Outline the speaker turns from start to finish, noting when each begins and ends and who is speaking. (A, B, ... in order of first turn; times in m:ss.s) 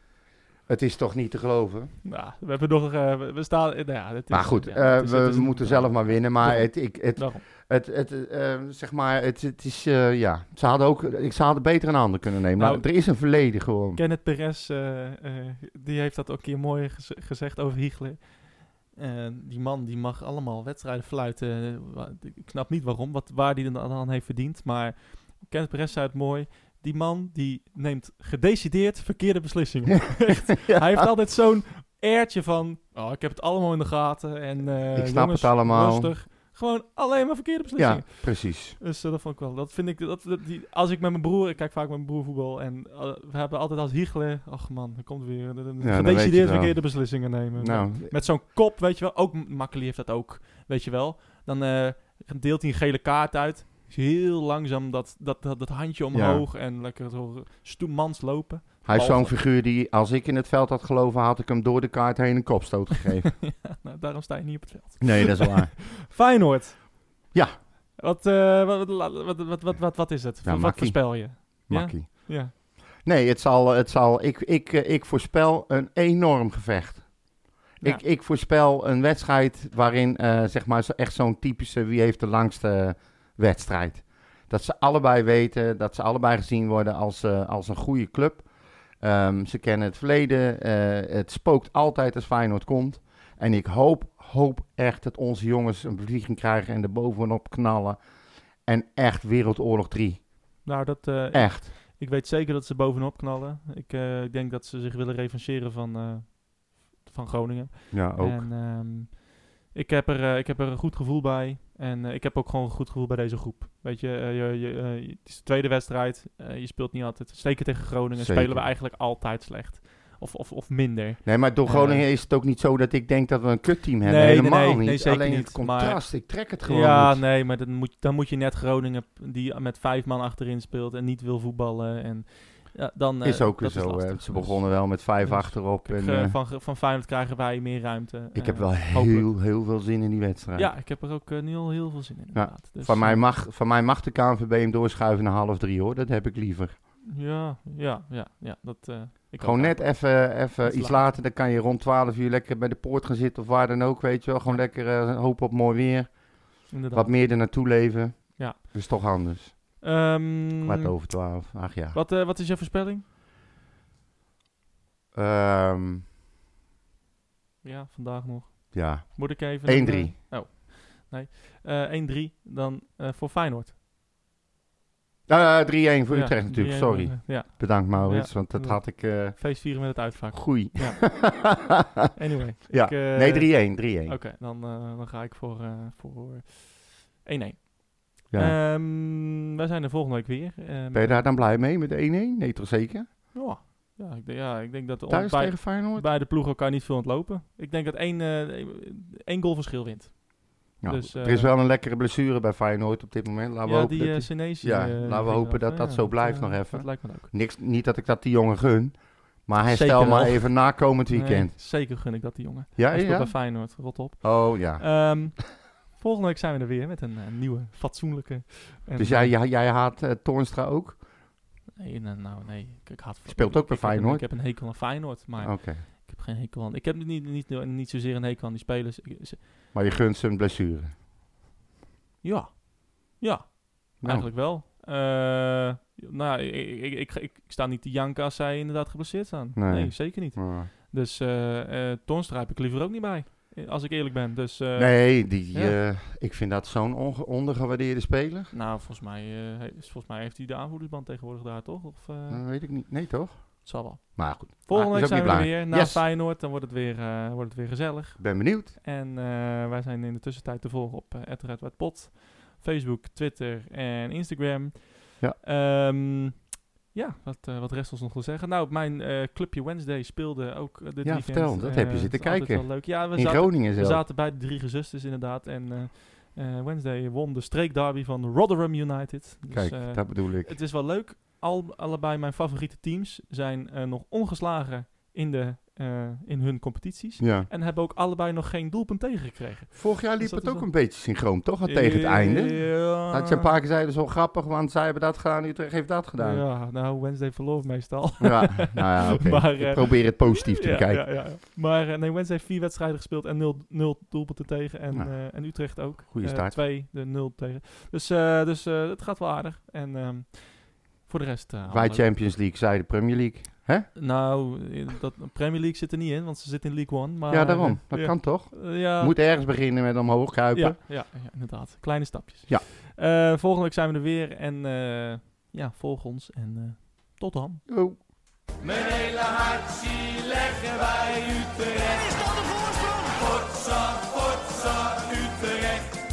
0:00.7-0:01.9 A
0:02.0-0:07.4 B
0:04.3-0:14.0 A
0:12.6-0:12.8 B
0:14.0-0:59.3 B
0:30.1-0:31.1 A
0:34.9-0:36.1 A
0:37.8-0:38.8 A
0:45.8-0:48.1 A
0:56.1-0:56.4 A
0:58.8-1:03.4 A
1:03.4-1:07.0 B
1:05.0-1:05.8 A
1:08.0-1:12.5 B
1:10.4-1:17.1 A
1:17.8-1:28.4 A
1:29.0-1:38.0 A
1:38.6-1:40.5 A
1:40.6-2:02.1 B
1:41.3-1:41.7 A
1:47.9-1:48.5 A
1:58.2-1:58.7 A
2:01.2-2:07.2 A
2:04.0-2:19.3 B
2:13.2-2:16.4 A
2:18.3-2:20.7 A
2:20.5-2:23.3 B
2:22.3-2:26.7 A
2:27.0-2:31.1 B
2:29.4-2:39.8 A
2:36.7-2:37.4 B
2:38.4-2:38.9 B
2:39.8-2:40.9 B
2:40.6-2:42.0 A
2:41.9-2:43.0 B
2:45.1-2:46.0 A
2:47.6-2:53.7 B
2:48.7-2:50.2 A
2:55.3-3:02.1 A
2:56.1-3:01.1 B
3:02.1-3:11.2 B
3:02.7-3:04.2 A
3:08.3-3:08.5 A
3:10.9-3:13.1 A
3:13.3-3:21.5 B
3:15.1-3:16.1 A
3:20.8-3:31.5 A
3:23.6-3:27.3 B
3:29.7-3:39.3 B
3:32.8-3:35.3 A
3:39.0-3:41.0 A
3:41.8-3:49.4 B
3:43.2-3:44.8 A
3:45.4-3:45.8 A
3:49.7-3:50.9 A
3:52.2-4:05.8 B
3:54.0-3:54.3 A
3:59.5-4:00.7 A
4:04.8-4:08.5 A
4:08.5-4:12.4 B
4:12.3-4:16.0 A
4:13.6-4:51.0 B
4:18.2-4:18.7 A
4:31.0-4:34.0 A
4:39.5-4:40.5 A
4:47.2-4:47.5 A
4:49.7-4:56.4 A
4:51.6-4:53.5 B
4:56.2-5:12.1 B
4:58.2-5:01.1 A
5:04.9-5:06.6 A
5:11.7-5:13.9 A
5:13.9-5:19.1 B
5:17.3-5:20.8 A
5:20.5-5:27.6 B
5:27.7-5:28.0 A
5:29.0-5:32.4 C
5:33.2-5:35.7 C